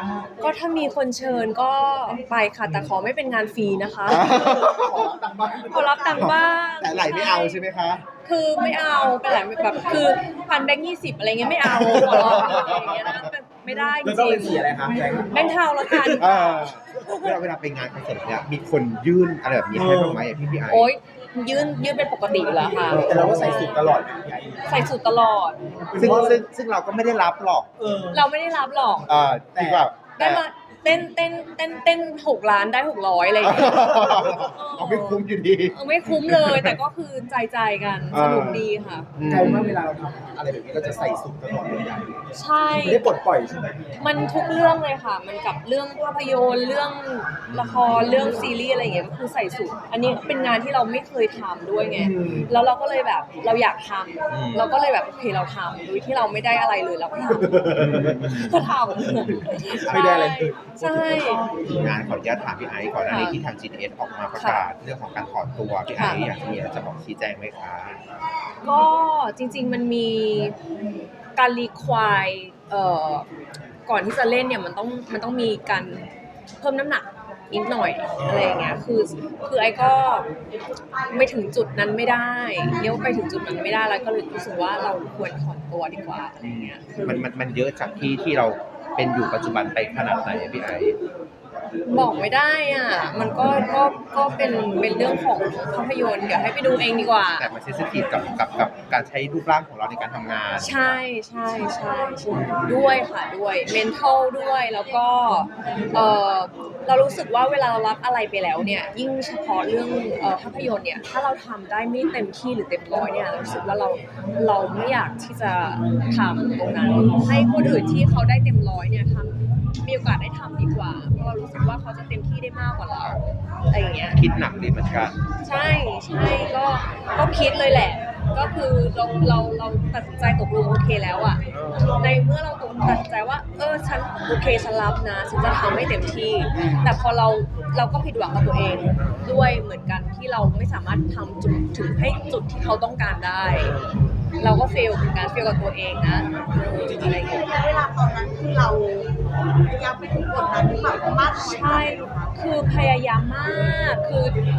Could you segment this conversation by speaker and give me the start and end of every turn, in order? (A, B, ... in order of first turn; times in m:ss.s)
0:00.4-0:04.4 A
0:04.1-0:05.1 B
0:04.2-0:06.3 C
0:05.7-0:07.6 A
0:05.7-0:06.3 D
0:06.2-0:08.0 B
0:08.2-0:17.4 A
0:11.6-0:13.3 B
0:13.8-0:16.3 C
0:16.2-0:20.9 B
0:19.7-0:20.4 C
0:20.7-0:23.9 A
0:22.5-0:25.0 C
0:22.9-0:23.6 B
0:24.6-0:26.4 A
0:25.7-0:26.4 C
0:26.0-0:28.0 B
0:27.8-0:28.2 C
0:28.1-0:29.1 A
0:29.0-0:30.4 B
0:29.4-0:29.9 C
0:30.2-0:39.1 A
0:33.4-0:36.8 B
0:38.1-0:39.8 B
0:39.2-0:44.1 C
0:42.4-0:43.2 A
0:44.0-1:01.4 A
0:47.5-0:48.4 B
0:52.0-0:52.5 C
0:54.3-0:54.7 B
0:57.7-0:58.6 B
0:57.9-0:58.2 C
0:59.8-1:01.5 C
1:01.7-1:08.0 B
1:03.0-1:03.4 A
1:04.4-1:04.7 A
1:05.9-1:06.3 A
1:08.6-1:10.6 A
1:11.4-1:13.3 A
1:13.9-1:16.1 A
1:16.6-1:20.3 A
1:18.2-1:18.8 B
1:21.1-1:27.2 A
1:26.4-1:31.0 B
1:31.9-1:37.5 A
1:37.4-1:41.0 B
1:40.6-2:04.2 A
1:42.3-1:43.0 B
2:04.2-2:05.2 B
2:05.4-2:11.4 A
2:11.5-2:12.0 B
2:12.0-2:23.8 A
2:16.6-2:16.9 B
2:19.0-2:19.4 B
2:23.6-2:24.0 C
2:24.4-2:27.4 A
2:26.7-2:27.5 C
2:27.0-2:32.4 D
2:31.4-2:34.4 A